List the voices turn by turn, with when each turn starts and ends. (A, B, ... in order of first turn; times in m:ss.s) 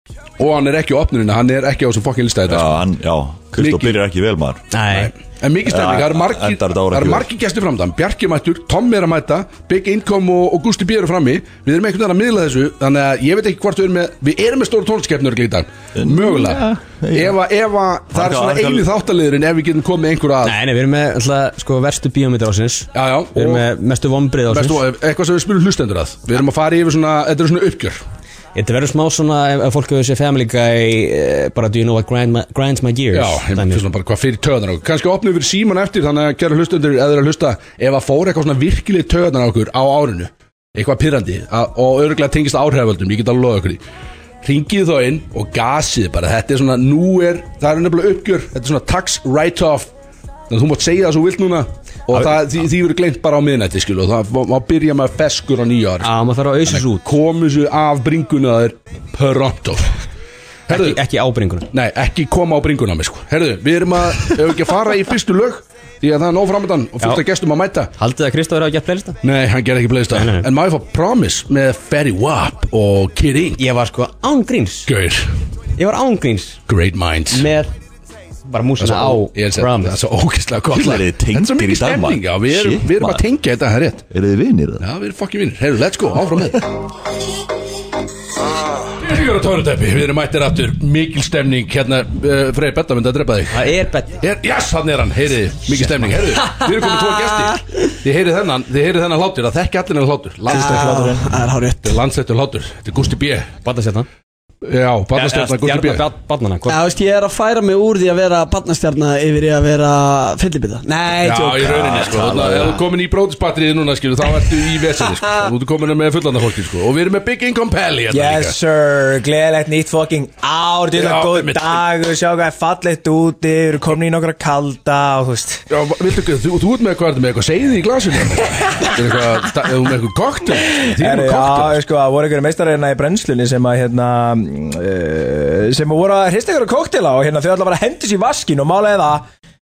0:00.4-0:02.8 A
0:02.5-0:04.6 B
0:03.5-0:04.0 A
0:04.7-0:05.1 C
0:04.8-0:20.6 A
0:05.6-0:07.3 B
0:16.0-0:17.4 B
0:18.1-0:18.9 B
0:20.4-0:24.8 C
0:22.9-0:23.7 A
0:24.5-0:28.0 A
0:28.5-0:33.8 C
0:33.1-0:43.8 A
0:44.4-0:49.9 A
0:50.5-0:56.1 A
0:56.0-0:57.1 C
0:56.6-0:59.9 A
1:00.7-1:01.0 A
1:00.7-1:01.7 C
1:01.7-1:07.9 A
1:08.0-1:09.2 C
1:09.2-1:13.6 A
1:10.1-1:10.5 C
1:13.6-1:14.9 C
1:14.9-1:15.3 A
1:15.8-1:16.6 C
1:16.7-1:17.5 A
1:17.3-1:17.7 C
1:18.5-1:20.0 C
1:18.8-1:24.0 A
1:20.7-1:23.2 B
1:24.1-1:24.8 B
1:24.8-1:26.6 A
1:29.0-1:41.1 A
1:33.5-1:34.1 C
1:40.5-1:42.0 D
1:40.5-1:41.3 E
1:41.8-1:43.5 A
1:43.6-1:44.1 C
1:44.6-1:46.0 A
1:45.1-1:46.8 C
1:46.6-1:52.6 D
1:51.2-1:58.6 A
1:52.0-1:52.4 B
1:58.1-2:05.6 E
2:00.9-2:01.8 A
2:05.7-2:11.8 A
2:10.8-2:19.2 E